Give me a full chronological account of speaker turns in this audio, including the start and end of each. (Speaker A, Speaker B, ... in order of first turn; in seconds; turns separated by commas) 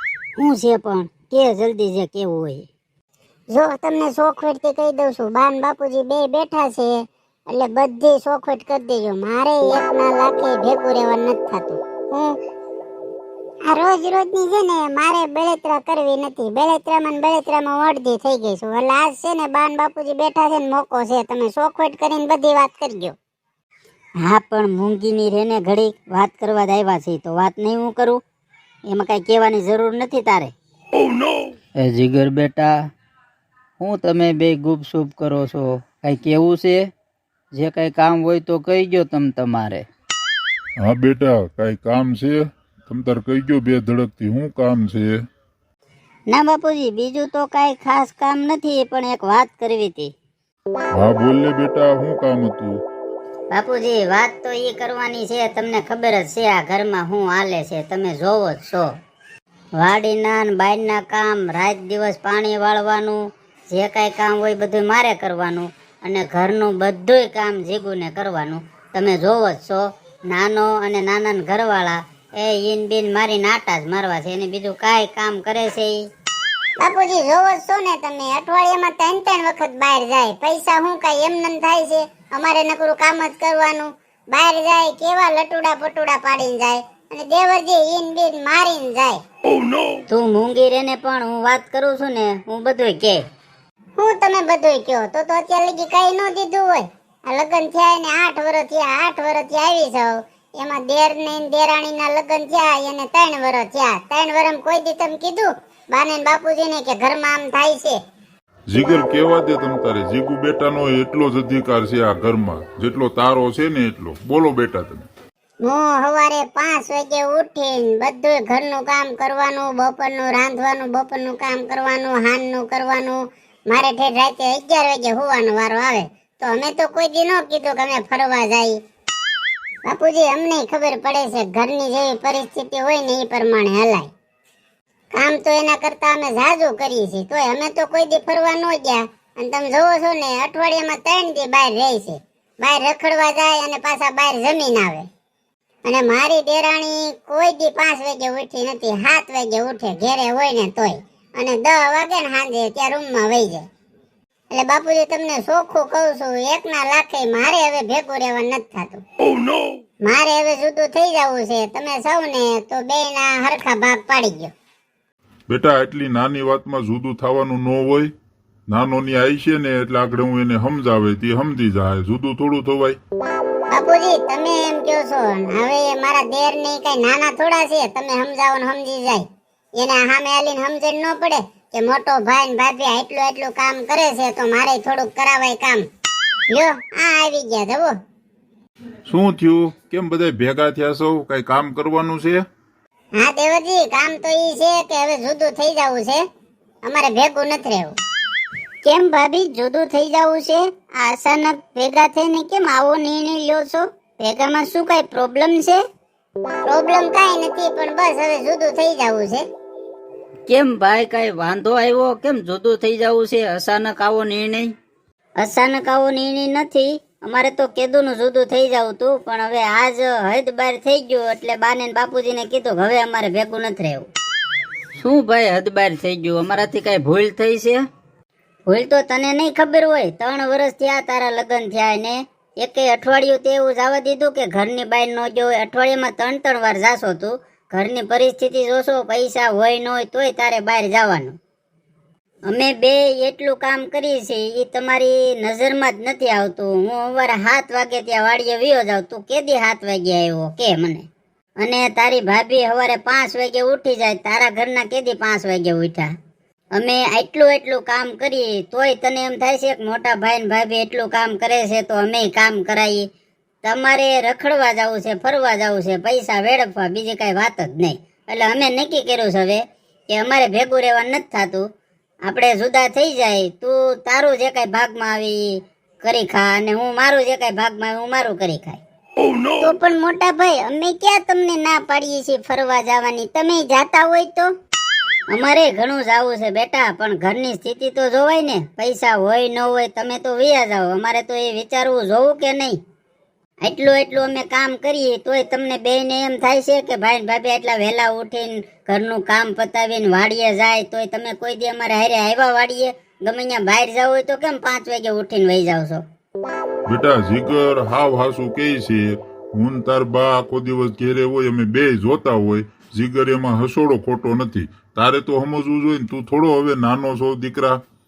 Speaker A: 0.4-2.7, Speaker B: 3.5-12.4, Speaker B: 13.7-23.1, Speaker A: 24.2-28.2, Speaker A: 28.9-30.5, Speaker C: 31.8-32.9, Speaker C: 33.8-36.9, Speaker C: 37.5-39.9, Speaker D: 40.8-45.2, Speaker A: 46.3-50.1, Speaker D: 50.9-52.8, Speaker A: 53.5-58.9, Speaker A: 59.8-76.1, Speaker B: 76.8-89.2, Speaker A: 90.1-93.2, Speaker B: 94.0-108.0, Speaker D: 108.7-115.1, Speaker B: 115.6-128.8, Speaker B: 129.9-134.1, Speaker B: 135.1-145.1, Speaker B: 145.8-153.7, Speaker B: 154.5-159.0, Speaker B: 160.0-164.5, Speaker D: 165.5-168.1, Speaker D: 168.7-173.0, Speaker B: 173.7-179.2, Speaker B: 179.8-185.8, Speaker B: 186.5-187.9, Speaker D: 189.1-192.4, Speaker B: 193.2-196.2, Speaker B: 196.8-197.9, Speaker A: 198.8-205.8, Speaker B: 206.6-209.4, Speaker C: 210.5-214.7, Speaker A: 215.4-224.1, Speaker C: 225.0-227.8, Speaker A: 228.7-241.4, Speaker A: 242.5-256.1, Speaker A: 256.7-263.1, Speaker A: 263.6-271.7, Speaker A: 272.2-278.8, Speaker A: 279.6-284.5, Speaker A: 285.3-292.8, Speaker A: 293.6-306.0, Speaker D: 306.9-317.8